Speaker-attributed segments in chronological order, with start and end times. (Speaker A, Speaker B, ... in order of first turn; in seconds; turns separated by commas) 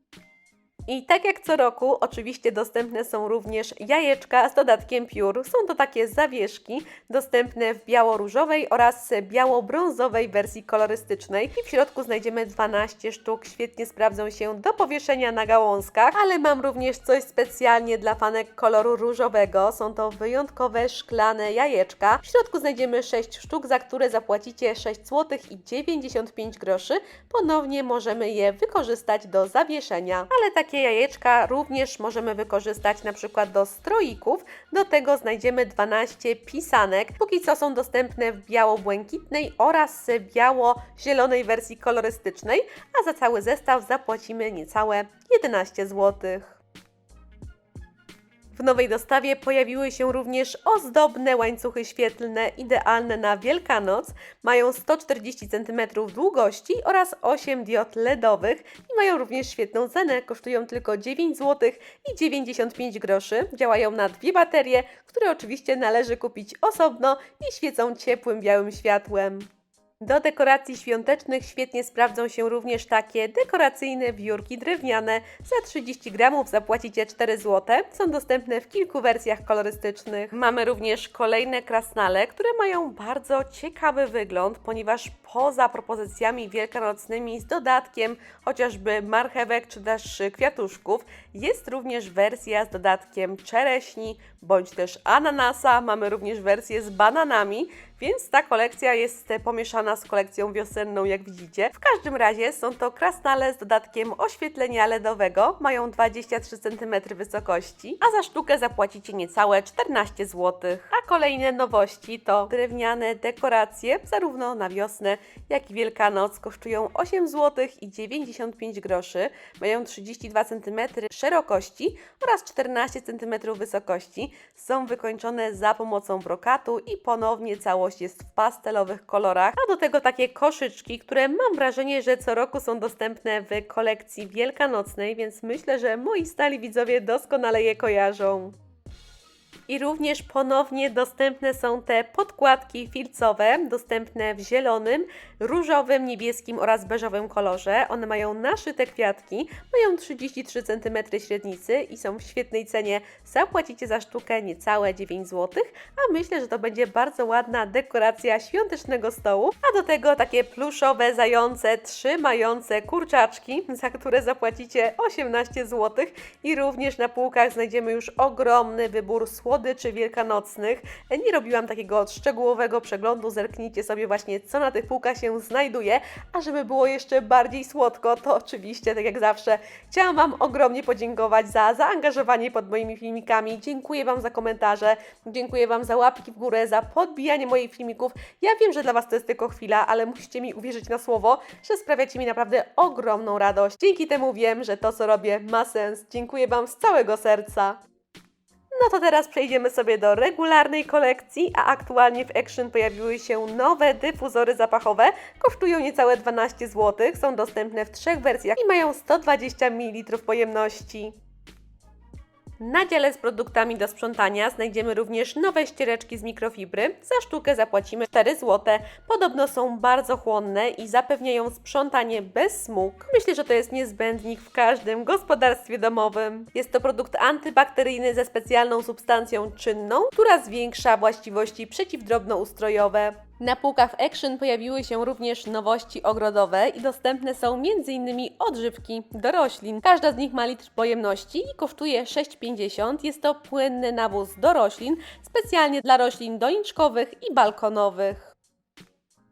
Speaker A: 0.9-46.6, Speaker A: 48.5-69.5, Speaker A: 70.0-138.6, Speaker A: 139.7-197.8, Speaker A: 198.7-211.2, Speaker A: 212.6-248.3